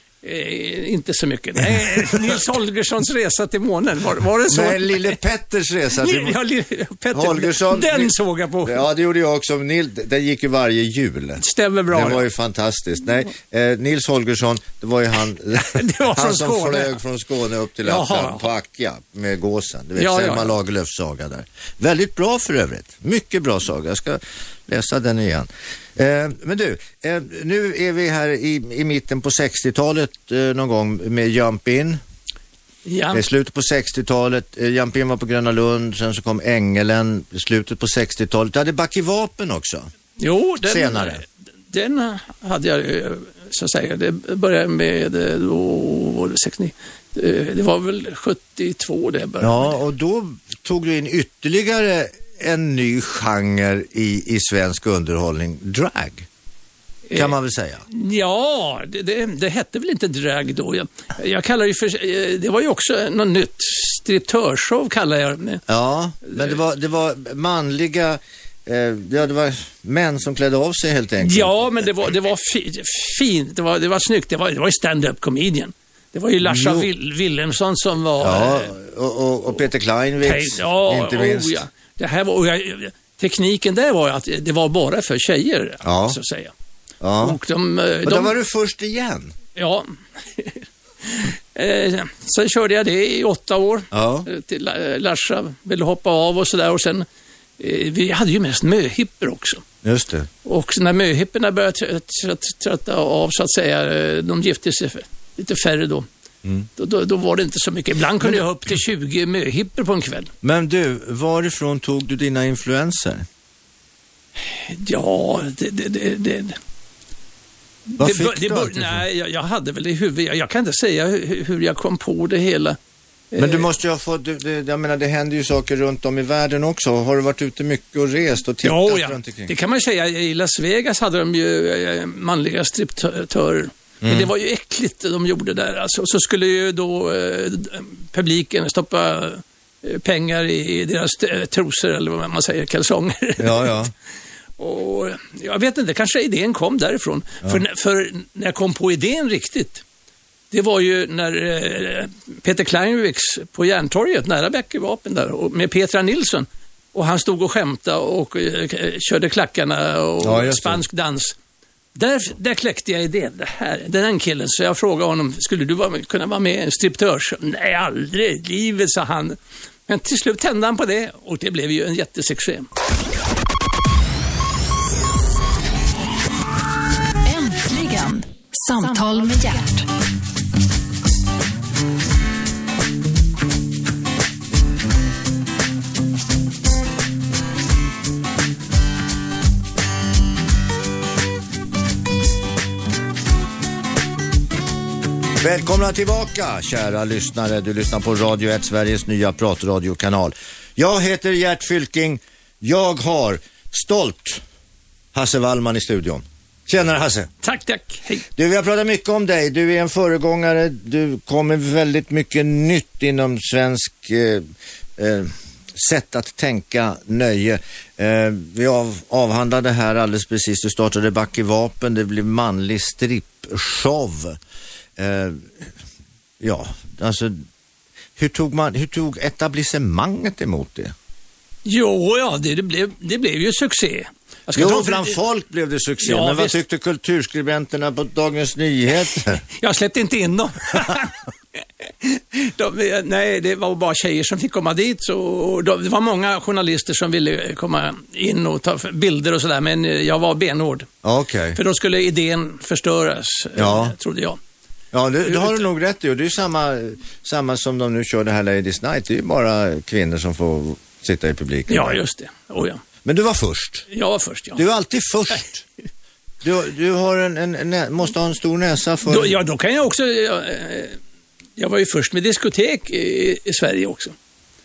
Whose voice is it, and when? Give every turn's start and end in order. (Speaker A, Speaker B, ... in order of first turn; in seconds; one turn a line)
Speaker A: 0.2-5.2
Speaker B: 1.9-2.4
Speaker B: 4.5-6.4
Speaker A: 6.0-8.8
Speaker B: 7.1-32.0
Speaker A: 11.4-12.3
Speaker A: 15.5-17.0
Speaker A: 17.8-18.5
Speaker A: 19.9-20.5
Speaker A: 32.8-33.2
Speaker B: 33.1-39.9
Speaker A: 40.2-49.8
Speaker B: 40.6-41.2
Speaker B: 49.4-56.3
Speaker B: 57.1-57.8
Speaker A: 57.9-65.6
Speaker B: 65.7-71.9
Speaker A: 66.2-66.5
Speaker A: 71.2-78.7
Speaker B: 76.4-76.9
Speaker B: 78.2-81.6
Speaker A: 80.2-86.5
Speaker B: 85.8-86.2
Speaker B: 87.0-87.4
Speaker A: 87.2-88.3
Speaker B: 88.0-89.3
Speaker A: 89.5-97.0
Speaker B: 93.9-94.3
Speaker A: 97.6-99.6
Speaker B: 99.8-100.3
Speaker A: 100.4-106.1
Speaker A: 106.8-110.3
Speaker B: 110.4-113.2
Speaker A: 114.5-116.6
Speaker A: 117.9-122.8
Speaker B: 118.0-119.0
Speaker A: 123.3-123.7
Speaker B: 123.4-129.5
Speaker A: 128.6-143.8
Speaker B: 134.0-134.3
Speaker B: 143.4-143.9
Speaker A: 144.6-149.8
Speaker A: 150.5-161.3
Speaker B: 160.2-160.8
Speaker A: 161.9-172.7
Speaker C: 177.2-179.9
Speaker B: 195.4-204.4
Speaker B: 205.1-207.3
Speaker A: 207.4-208.2
Speaker B: 208.3-214.4
Speaker B: 215.0-224.4
Speaker B: 225.0-225.7
Speaker B: 226.4-227.4
Speaker B: 228.2-230.9
Speaker A: 231.6-235.2
Speaker B: 234.5-239.4
Speaker A: 236.0-236.6
Speaker A: 239.6-241.2
Speaker A: 241.8-250.9
Speaker B: 251.0-251.6
Speaker A: 251.5-254.4
Speaker B: 253.6-253.9
Speaker B: 254.9-262.0
Speaker A: 255.2-255.6
Speaker A: 261.7-262.8
Speaker B: 263.0-263.9
Speaker A: 263.9-264.6
Speaker B: 264.6-265.6
Speaker B: 266.4-269.4
Speaker A: 269.1-271.0
Speaker A: 271.6-274.1